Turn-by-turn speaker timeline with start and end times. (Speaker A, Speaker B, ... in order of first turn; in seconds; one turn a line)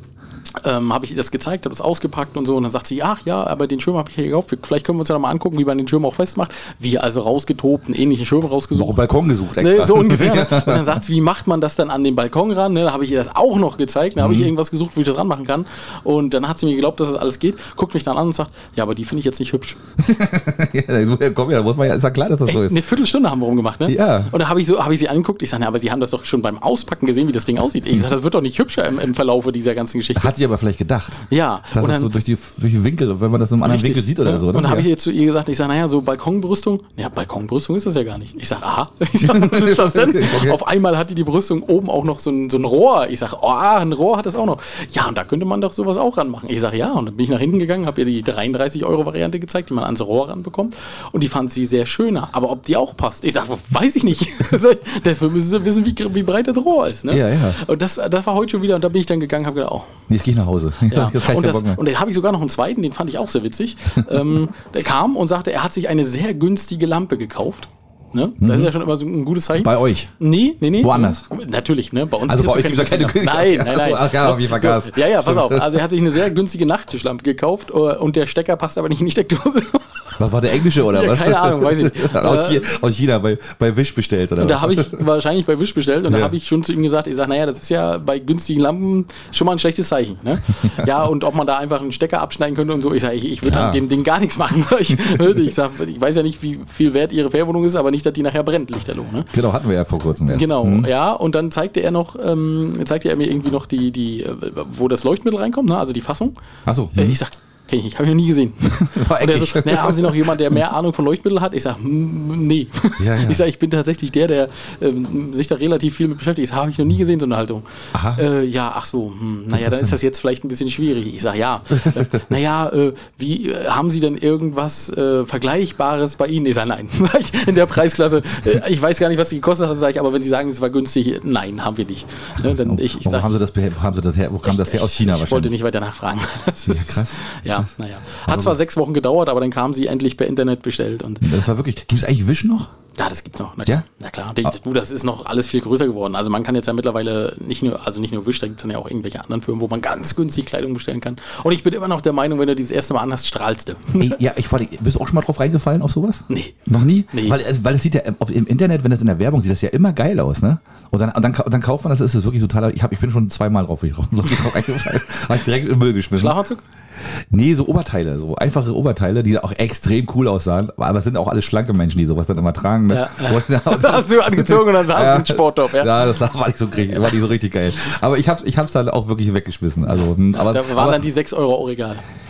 Speaker A: 0.6-9.0
Speaker B: 8.7-11.0
Speaker A: 9.6-19.8
Speaker B: 14.2-14.5
Speaker B: 20.0-22.8
Speaker A: 22.4-30.3
Speaker B: 23.9-24.3
Speaker B: 30.1-31.2
Speaker A: 31.3-32.1
Speaker B: 31.7-34.9
Speaker A: 33.6-59.9
Speaker B: 39.2-40.6
Speaker B: 57.1-57.6
Speaker B: 60.1-61.8
Speaker A: 60.9-80.2
Speaker B: 68.4-68.7
Speaker B: 69.5-70.1
Speaker B: 70.8-71.2
Speaker B: 72.3-75.8
Speaker B: 80.2-85.0
Speaker A: 80.8-82.7
Speaker A: 84.4-99.3
Speaker B: 86.1-86.3
Speaker B: 93.4-93.8
Speaker B: 99.3-100.9
Speaker A: 100.3-106.3
Speaker B: 106.7-107.2
Speaker A: 106.9-133.3
Speaker B: 108.8-110.6
Speaker B: 113.0-113.4
Speaker B: 117.9-118.2
Speaker B: 119.5-119.9
Speaker B: 121.8-122.1
Speaker B: 132.4-135.5
Speaker A: 134.4-141.4
Speaker B: 136.6-137.7
Speaker B: 138.2-138.6
Speaker B: 141.2-142.7
Speaker A: 142.9-154.2
Speaker B: 154.0-166.4
Speaker A: 156.3-156.6
Speaker A: 157.1-157.4
Speaker A: 166.2-166.6
Speaker B: 167.3-181.0
Speaker A: 172.9-176.1
Speaker A: 179.8-182.0